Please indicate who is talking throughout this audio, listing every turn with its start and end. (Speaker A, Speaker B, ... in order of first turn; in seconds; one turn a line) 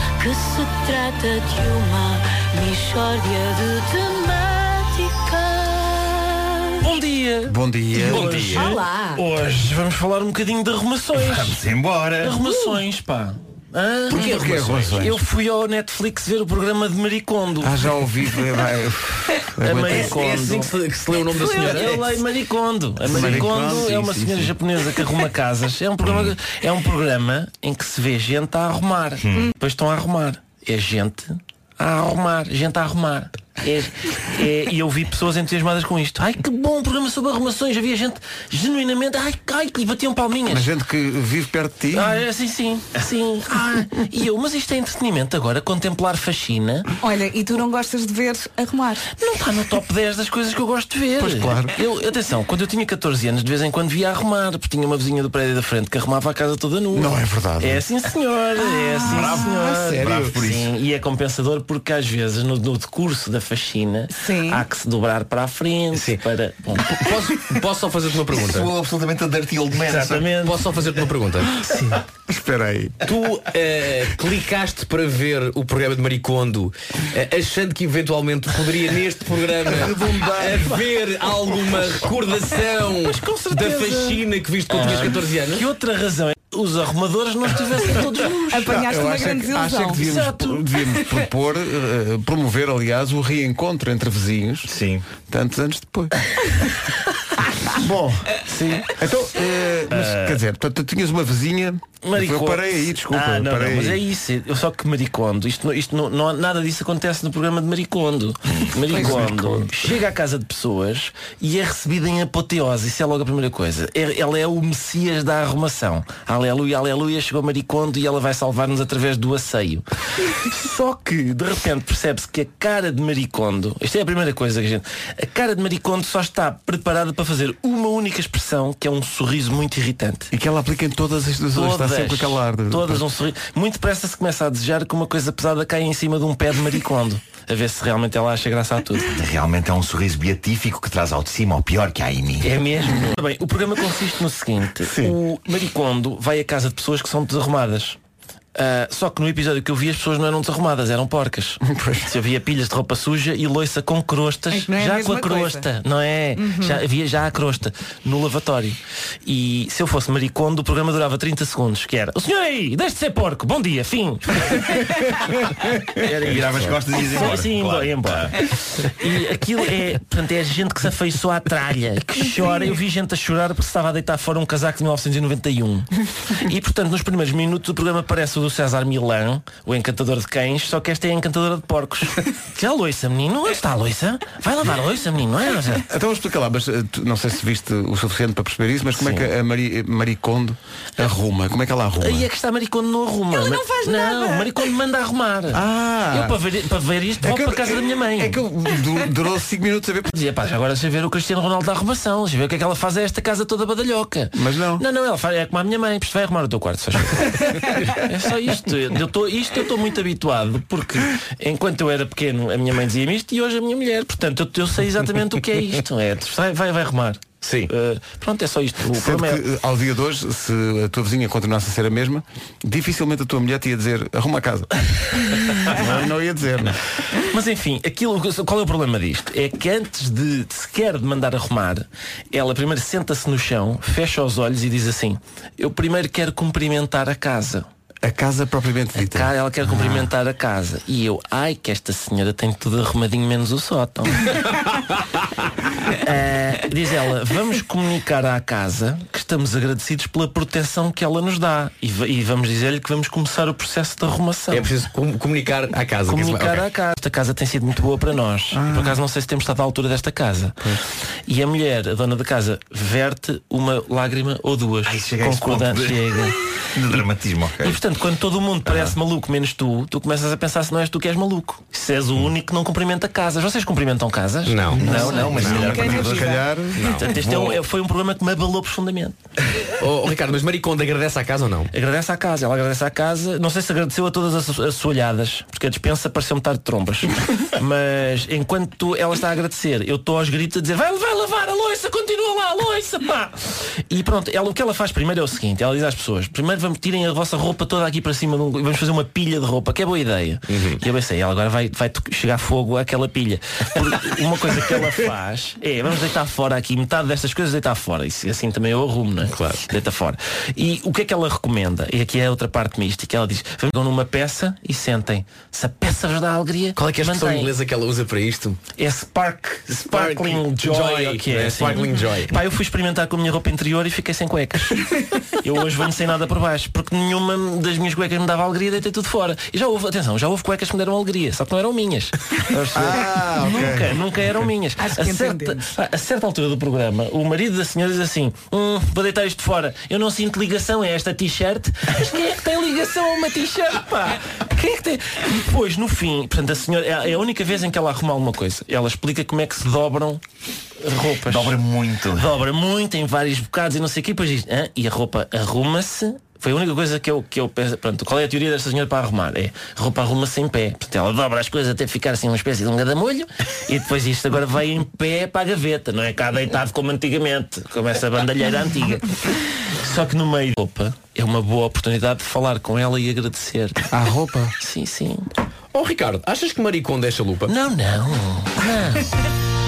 Speaker A: 0.2-7.0
Speaker B: 6.8-11.6
Speaker C: 7.5-8.7
Speaker D: 8.0-8.7
Speaker A: 8.6-9.2
Speaker E: 11.2-12.5
Speaker B: 12.2-17.8
Speaker C: 14.1-15.2
Speaker D: 14.1-15.0
Speaker C: 17.6-20.2
Speaker B: 19.6-20.7
Speaker D: 19.9-22.1
Speaker B: 21.4-40.7
Speaker C: 23.1-24.6
Speaker E: 26.0-26.3
Speaker C: 40.5-42.2
Speaker B: 41.9-46.9
Speaker F: 47.0-49.1
Speaker B: 49.2-67.0
Speaker C: 51.2-51.8
Speaker C: 56.9-57.8
Speaker E: 59.1-60.7
Speaker C: 59.3-60.4
Speaker F: 64.1-64.6
Speaker D: 65.9-66.2
Speaker D: 66.9-68.7
Speaker E: 68.3-70.3
Speaker B: 69.8-70.7
Speaker D: 70.4-71.5
Speaker B: 71.6-72.0
Speaker C: 72.3-73.0
Speaker D: 73.0-85.7
Speaker C: 79.7-80.8
Speaker B: 83.0-88.8
Speaker F: 88.5-90.0
Speaker C: 88.7-94.7
Speaker B: 90.0-90.8
Speaker E: 94.7-95.0
Speaker C: 95.3-96.1
Speaker C: 97.7-104.0
Speaker B: 98.5-99.0
Speaker B: 99.9-100.4
Speaker B: 102.0-130.3
Speaker C: 108.9-109.7
Speaker C: 130.3-133.1
Speaker B: 131.5-139.2
Speaker E: 139.1-142.5
Speaker B: 142.4-148.0
Speaker C: 144.8-145.2
Speaker B: 148.6-165.0
Speaker C: 151.7-152.1
Speaker F: 154.5-155.7
Speaker F: 156.4-156.8
Speaker B: 166.0-185.9
Speaker E: 166.1-168.4
Speaker C: 185.9-192.3
Speaker B: 189.0-189.3
Speaker B: 192.0-198.4
Speaker F: 193.3-194.5
Speaker C: 195.5-196.4
Speaker C: 197.2-200.1
Speaker B: 200.1-219.4
Speaker C: 204.3-204.8
Speaker D: 217.4-217.7
Speaker C: 218.9-226.8
Speaker B: 225.7-226.1
Speaker B: 227.1-237.7
Speaker C: 238.0-240.0
Speaker B: 239.0-244.6
Speaker B: 245.9-254.7
Speaker D: 254.5-256.6
Speaker B: 256.1-260.8
Speaker C: 258.5-259.0
Speaker B: 261.3-267.0
Speaker E: 264.9-267.8
Speaker B: 267.6-279.1
Speaker D: 274.5-275.9
Speaker E: 274.7-277.6
Speaker F: 274.9-276.5
Speaker C: 276.2-276.7
Speaker D: 276.8-277.1
Speaker D: 279.7-281.7
Speaker B: 281.7-317.5
Speaker D: 300.5-300.8
Speaker D: 309.3-309.6
Speaker D: 316.8-318.6
Speaker B: 318.7-350.2
Speaker D: 319.7-322.3
Speaker C: 332.7-334.0
Speaker F: 334.8-335.7
Speaker B: 350.8-373.9
Speaker E: 351.2-352.3
Speaker C: 373.9-374.6
Speaker B: 374.6-375.3
Speaker D: 375.7-377.5
Speaker B: 377.5-379.1